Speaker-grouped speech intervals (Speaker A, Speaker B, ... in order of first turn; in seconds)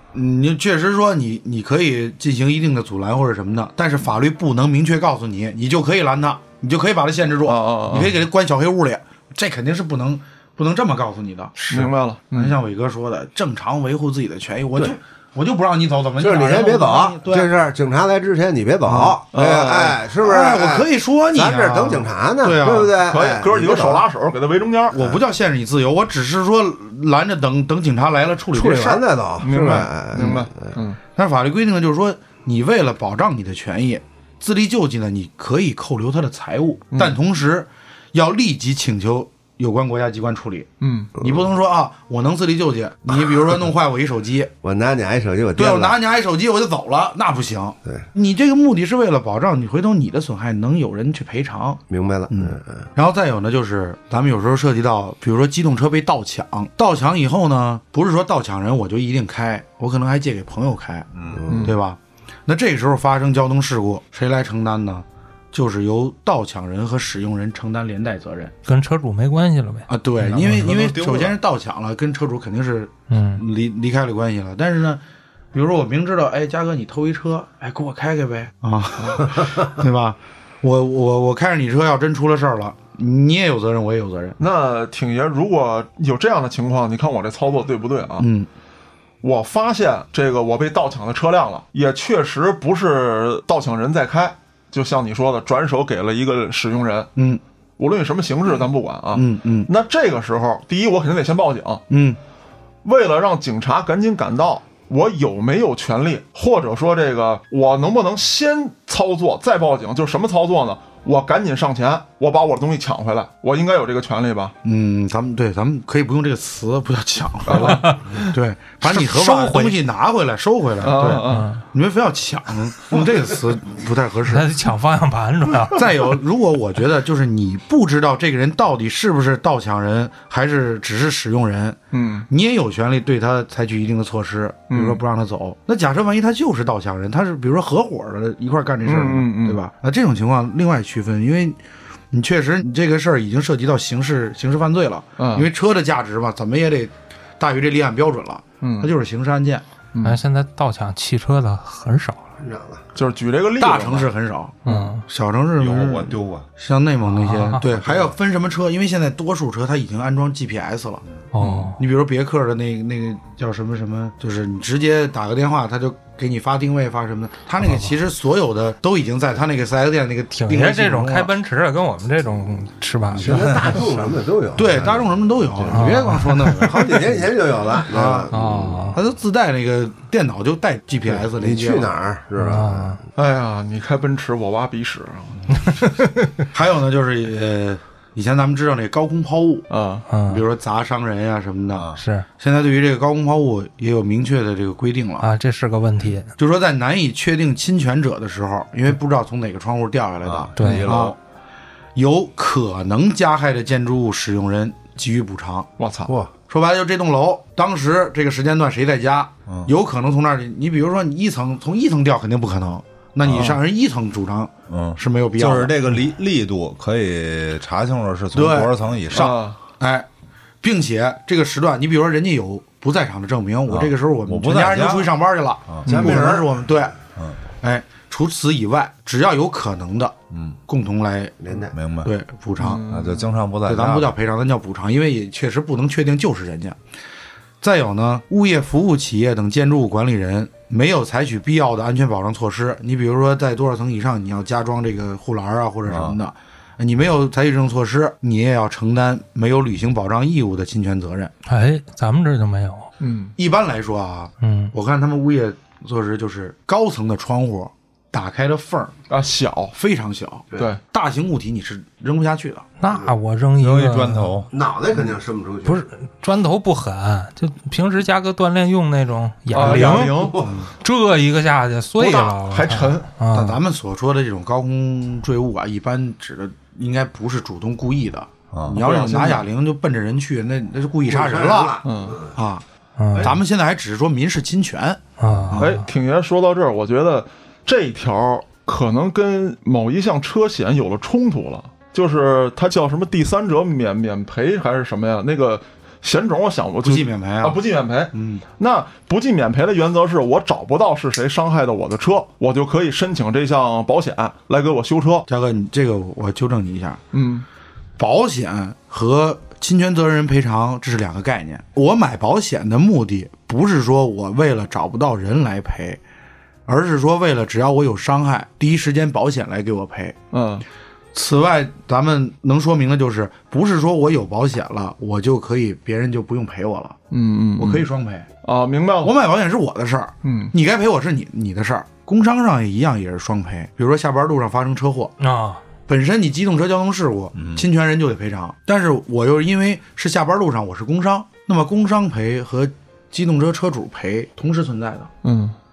Speaker A: 0.1-17.5, 18.9-19.2, 20.2-22.9, 24.9-29.1, 29.6-30.4, 31.1-44.5, 45.5-61.1, 61.6-68.5, 69.9-75.0, 75.5-84.4, 88.2-88.5, 97.2-97.4, 99.1-99.7, 101.9-102.2, 114.6-124.5, 125.7-141.6, 142.1-149.6, 153.6-161.0, 161.8-171.3, 174.6-177.2, 177.9-178.3, 178.9-181.9, 186.5-189.7, 190.2-191.9, 192.4-195.3, 196.4-201.2, 201.9-205.7, 206.5-215.7, 218.3-220.1, 220.6-227.0, 227.6-230.1, 230.7-231.4, 232.0-232.8, 233.6-236.8, 237.6-251.3, 253.4-258.9, 259.7-262.6, 269.9-270.7, 273.3-281.8, 282.3-282.6, 283.2-285.7, 296.8-297.6, 298.1-298.4, 305.3-307.0, 308.0-316.0, 316.7-320.1, 321.1-327.0, 327.6-328.3, 329.0-335.1, 335.9-345.1
Speaker B: 7.4-8.2, 11.7-12.6, 19.3-20.0, 23.0-25.0, 29.4-31.0, 36.9-37.2, 40.8-41.1, 61.5-61.8, 84.4-88.2, 89.2-97.1, 97.8-101.8, 102.8-114.5, 117.4-117.9, 120.8-121.5, 131.9-132.2, 134.7-135.0, 138.8-139.6, 145.2-145.5, 148.6-148.9, 149.9-150.2, 152.9-154.1, 154.6-155.0, 161.4-161.7, 183.2-185.7, 189.7-190.1, 205.8-206.1, 219.1-219.6, 225.8-226.3, 232.6-233.3, 253.0-253.3, 259.1-259.7, 260.5-260.8, 269.5-270.4, 272.0-273.1, 278.7-279.4, 281.8-282.2, 285.5-305.3, 307.1-307.4, 320.3-320.6, 327.1-327.9, 328.4-329.1, 330.2-330.5, 345.2-345.5
Speaker C: 16.2-24.0, 28.5-30.7, 44.6-46.0, 51.9-52.9, 61.3-61.7, 152.4-152.8, 173.1-176.0, 176.5-179.0, 181.3-183.0, 225.9-226.4, 231.4-231.7, 264.5-265.8, 269.6-270.5, 281.1-282.3
Speaker D: 61.1-61.4, 70.4-71.3, 155.6-156.4, 157.8-158.1, 191.7-192.0, 200.2-201.1, 213.2-213.6, 214.7-219.4, 223.7-225.1, 230.3-230.6, 231.7-232.1, 232.8-234.1, 245.9-246.2, 263.6-264.5, 278.5-278.8, 337.4-337.6
Speaker E: 68.7-70.7, 73.1-73.4, 117.6-118.3, 118.8-119.8, 121.2-121.6, 124.2-126.1, 150.0-152.3, 154.7-155.0, 157.1-157.6, 161.3-161.8, 170.3-174.1, 175.7-176.8, 178.3-179.0, 182.4-183.0, 185.6-186.1, 190.1-190.4, 192.0-192.2, 195.2-196.3, 200.6-200.9, 251.4-252.9, 254.4-254.7, 262.8-264.3, 265.6-273.6, 283.0-283.4, 285.2-285.8, 335.2-335.6